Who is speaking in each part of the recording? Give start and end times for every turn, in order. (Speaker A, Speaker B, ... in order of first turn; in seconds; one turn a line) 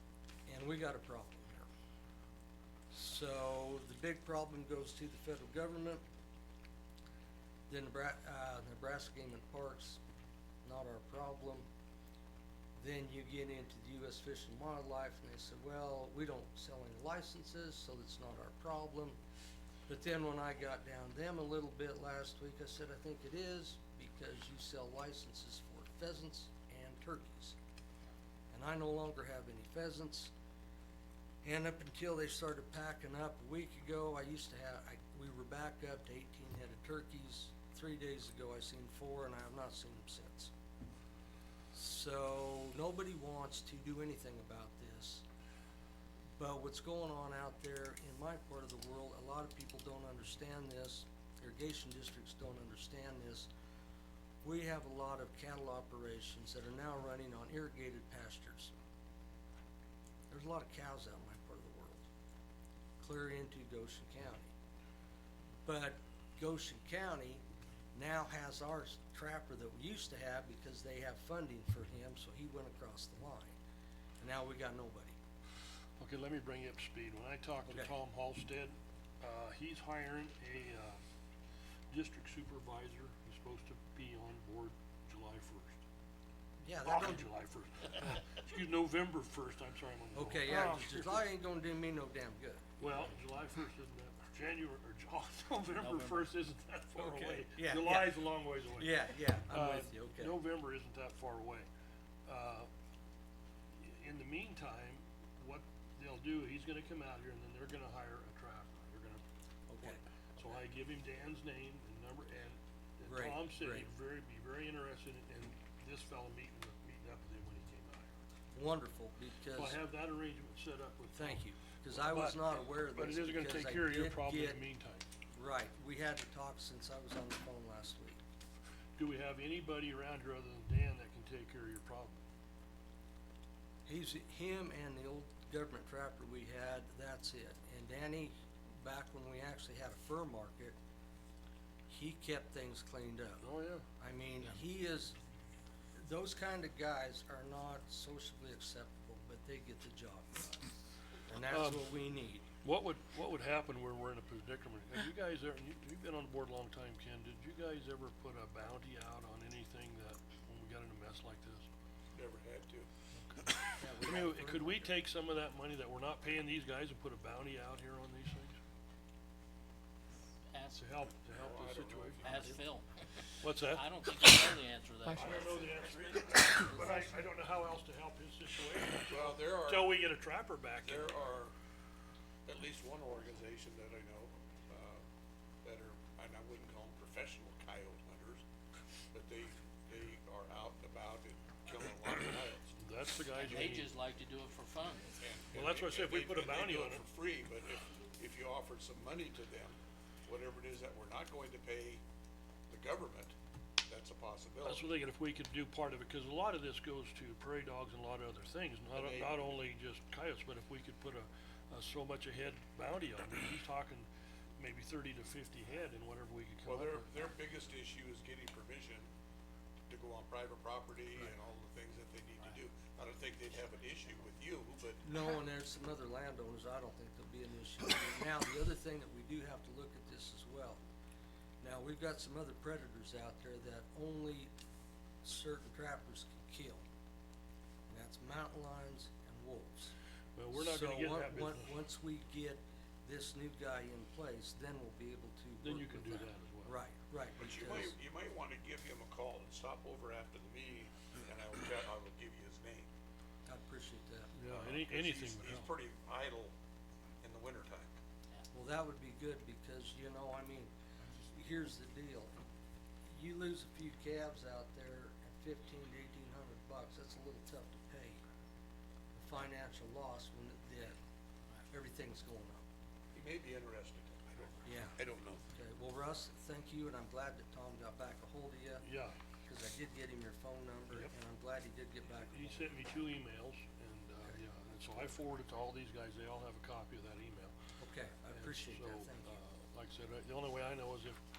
Speaker A: 0.5-1.7
Speaker A: 2.9-6.0
Speaker A: 7.7-10.0
Speaker A: 10.6-11.7
Speaker A: 12.8-19.2
Speaker A: 19.9-27.6
Speaker A: 28.5-30.3
Speaker A: 31.4-40.5
Speaker A: 41.7-45.2
Speaker A: 46.4-53.5
Speaker A: 54.4-58.7
Speaker A: 60.3-62.1
Speaker A: 63.0-64.5
Speaker A: 65.6-67.4
Speaker A: 67.9-73.6
Speaker A: 74.2-75.2
Speaker B: 76.0-81.0
Speaker A: 77.7-77.9
Speaker B: 81.9-85.8
Speaker A: 86.6-87.3
Speaker B: 86.8-91.2
Speaker A: 90.1-92.6
Speaker B: 92.8-101.7
Speaker C: 95.7-96.3
Speaker A: 97.0-98.2
Speaker A: 98.7-100.4
Speaker B: 102.2-102.7
Speaker B: 103.8-109.2
Speaker A: 109.7-110.0
Speaker B: 109.8-118.1
Speaker A: 113.1-113.9
Speaker A: 118.5-119.8
Speaker B: 119.5-125.0
Speaker A: 121.2-124.6
Speaker A: 125.3-128.2
Speaker B: 128.9-132.2
Speaker A: 133.8-140.8
Speaker A: 141.9-143.4
Speaker B: 143.4-143.8
Speaker A: 144.0-145.2
Speaker A: 145.9-150.7
Speaker A: 151.3-152.4
Speaker B: 151.5-151.9
Speaker B: 152.6-161.7
Speaker D: 162.1-162.9
Speaker A: 163.8-164.9
Speaker B: 164.0-168.6
Speaker C: 170.5-171.0
Speaker B: 170.8-172.6
Speaker D: 171.3-172.6
Speaker C: 172.2-173.1
Speaker B: 173.4-173.9
Speaker C: 173.6-176.8
Speaker B: 175.1-181.2
Speaker A: 176.7-177.0
Speaker D: 179.1-180.0
Speaker D: 180.8-181.5
Speaker D: 182.4-185.0
Speaker D: 185.6-188.4
Speaker D: 189.1-192.7
Speaker B: 192.7-193.9
Speaker C: 193.3-195.2
Speaker D: 195.2-202.0
Speaker B: 195.5-197.0
Speaker D: 202.7-203.3
Speaker D: 203.9-204.9
Speaker B: 204.6-217.3
Speaker D: 208.9-209.6
Speaker D: 216.7-219.1
Speaker D: 219.9-225.0
Speaker A: 225.0-230.8
Speaker A: 231.6-234.5
Speaker A: 235.2-236.8
Speaker A: 237.9-239.9
Speaker B: 240.3-241.8
Speaker A: 240.5-247.9
Speaker B: 245.6-246.7
Speaker D: 247.4-252.9
Speaker A: 253.4-254.3
Speaker B: 254.3-255.7
Speaker D: 254.5-256.5
Speaker D: 257.2-257.9
Speaker A: 258.5-260.7
Speaker A: 261.3-262.4
Speaker A: 263.1-268.2
Speaker A: 269.1-271.0
Speaker A: 271.7-272.6
Speaker D: 273.1-275.4
Speaker A: 274.6-275.0
Speaker A: 275.5-278.9
Speaker B: 278.8-279.1
Speaker A: 279.4-282.9
Speaker B: 282.3-287.5
Speaker A: 287.8-289.4
Speaker B: 288.3-291.2